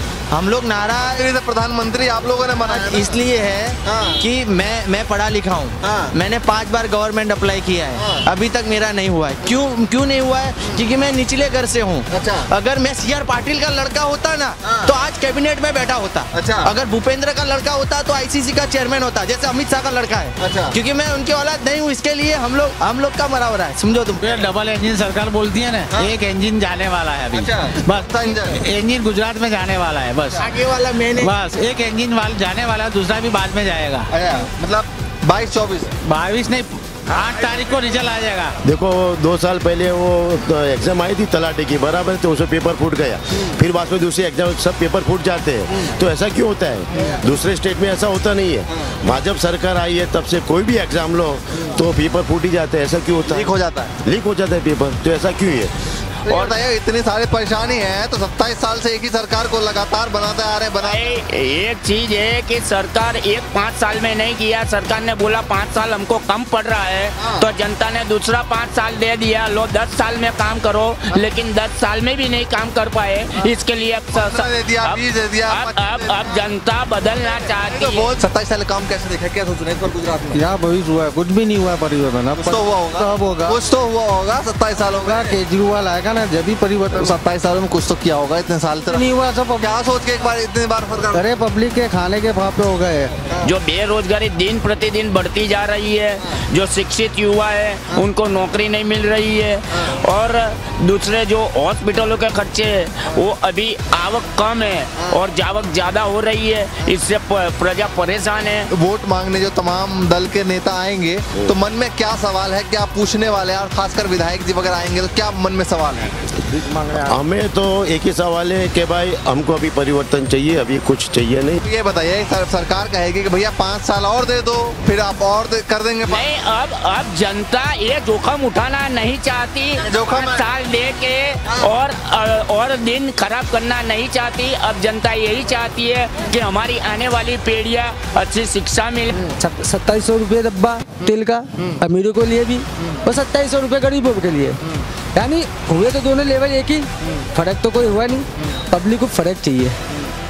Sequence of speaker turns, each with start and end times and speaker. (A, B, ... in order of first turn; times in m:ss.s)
0:00.3-0:01.2 A
0:01.0-0:03.1 B
0:02.6-0:24.3 A
0:03.8-0:04.2 B
0:05.8-0:06.1 B
0:08.0-0:08.2 B
0:12.1-0:12.5 B
0:14.6-0:14.9 B
0:16.3-0:16.7 B
0:20.4-0:20.8 B
0:24.2-0:30.5 C
0:27.3-0:28.6 B
0:30.4-0:31.3 A
0:31.2-0:34.1 C
0:34.1-0:35.9 B
0:36.0-0:38.6 C
0:38.6-0:55.7 D
0:53.3-0:53.9 B
0:56.3-1:01.0 B
0:56.3-0:56.5 E
1:00.8-1:18.1 E
1:07.2-1:07.4 B
1:14.1-1:16.4 B
1:17.4-1:20.4 B
1:20.3-1:23.6 F
1:22.4-1:25.4 B
1:25.0-1:27.1 F
1:26.9-1:29.0 B
1:28.8-1:29.7 F
1:29.6-1:31.3 B
1:31.1-1:33.1 F
1:33.4-1:48.7 E
1:48.7-1:56.1 B
1:56.6-2:01.6 D
2:01.6-2:06.2 B
2:06.1-2:19.3 E
2:09.8-2:10.5 B
2:19.4-2:24.6 G
2:25.1-2:29.8 G